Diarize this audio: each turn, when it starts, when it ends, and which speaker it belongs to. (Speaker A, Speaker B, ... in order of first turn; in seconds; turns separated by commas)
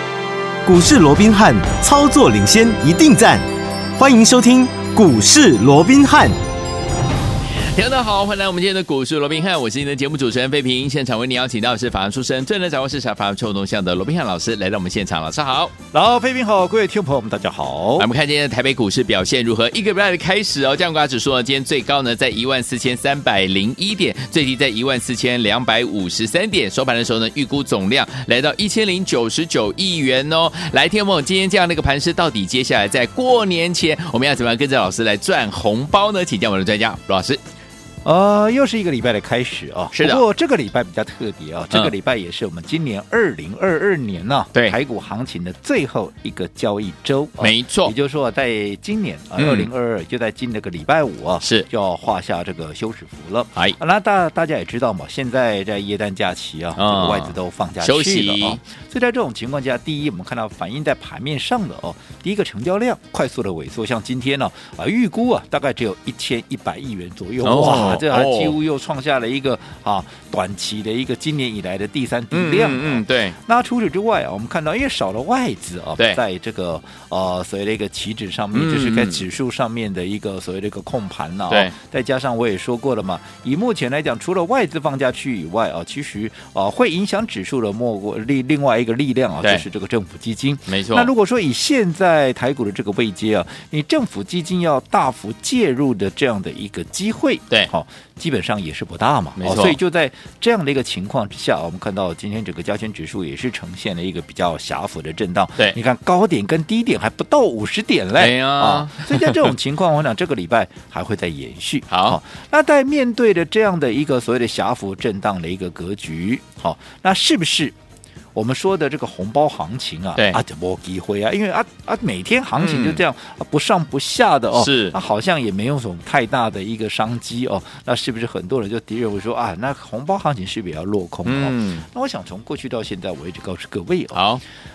Speaker A: 0.7-3.5, Speaker A: 4.0-6.4, Speaker B: 7.6-15.7, Speaker C: 15.9-18.1, Speaker B: 18.0-37.4, Speaker C: 38.0-117.7, Speaker B: 39.9-40.2, Speaker B: 47.4-47.9, Speaker B: 49.4-49.7, Speaker B: 51.4-51.7, Speaker B: 56.8-58.6, Speaker B: 67.4-68.6, Speaker B: 72.3-73.4, Speaker B: 78.5-79.2, Speaker B: 90.7-91.1, Speaker B: 99.4-99.8, Speaker B: 108.2-109.5, Speaker B: 111.9-112.2, Speaker C: 118.3-134.2, Speaker B: 122.6-123.0, Speaker B: 124.5-125.0, Speaker B: 131.2-131.9, Speaker B: 134.1-134.4